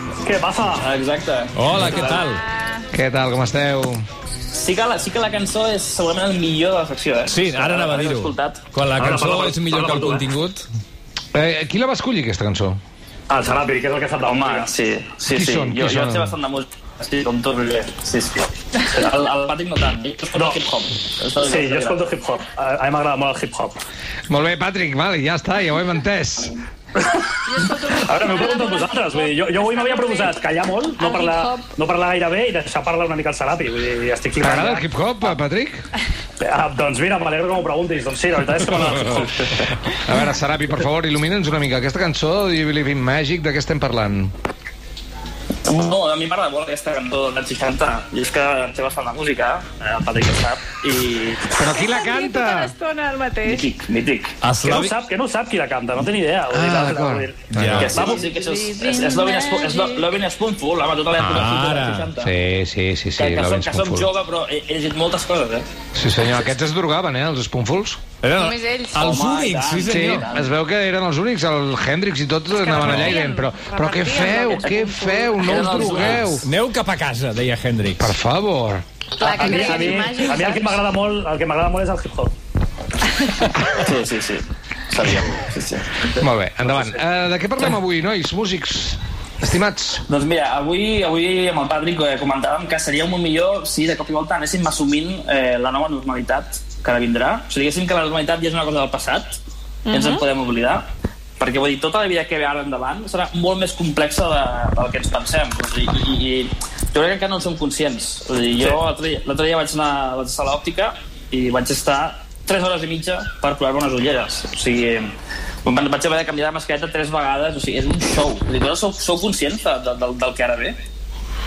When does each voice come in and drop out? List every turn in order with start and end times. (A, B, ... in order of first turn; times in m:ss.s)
0:00.2-0:00.8 A
0:00.8-0:02.2 B
0:01.6-0:02.4 C
0:01.7-0:02.2 A
0:02.3-0:02.8 D
0:02.9-0:04.0 E
0:04.5-0:08.7 B
0:07.3-0:10.7 C
0:09.0-0:10.2 A
0:11.3-0:12.8 E
0:13.3-0:14.7 A
0:14.2-0:22.2 B
0:15.3-0:16.3 E
0:20.3-0:20.6 A
0:21.4-0:23.8 A
0:24.3-0:26.6 E
0:27.0-0:35.4 A
0:27.5-0:30.4 D
0:31.0-0:31.7 D
0:34.4-0:35.8 E
0:36.4-0:39.7 A
0:38.9-0:39.2 E
0:39.9-0:44.3 E
0:45.7-0:51.5 B
0:51.5-0:52.7 E
0:51.6-0:53.7 D
0:53.4-0:54.4 B
0:54.4-0:54.9 C
0:54.6-0:58.2 A
0:56.5-0:58.0 E
0:57.5-0:57.9 C
0:57.8-1:02.3 B
0:57.9-1:00.1 D
1:01.2-1:01.5 E
1:01.2-1:02.1 C
1:02.2-1:04.1 E
1:03.2-1:05.7 B
1:05.9-1:08.0 E
1:08.2-1:10.3 C
1:08.4-1:09.0 D
1:09.0-1:10.5 B
1:09.9-1:16.5 E
1:12.6-1:15.6 D
1:12.8-1:13.2 C
1:14.6-1:16.3 B
1:15.8-1:18.2 C
1:18.0-1:18.8 E
1:19.2-1:20.1 B
1:19.2-1:20.8 D
1:19.2-1:22.3 A
1:23.8-1:26.2 B
1:26.2-1:30.0 E
1:30.1-1:39.4 B
1:39.9-1:40.2 D
1:39.9-1:55.1 B
1:55.6-2:00.8 B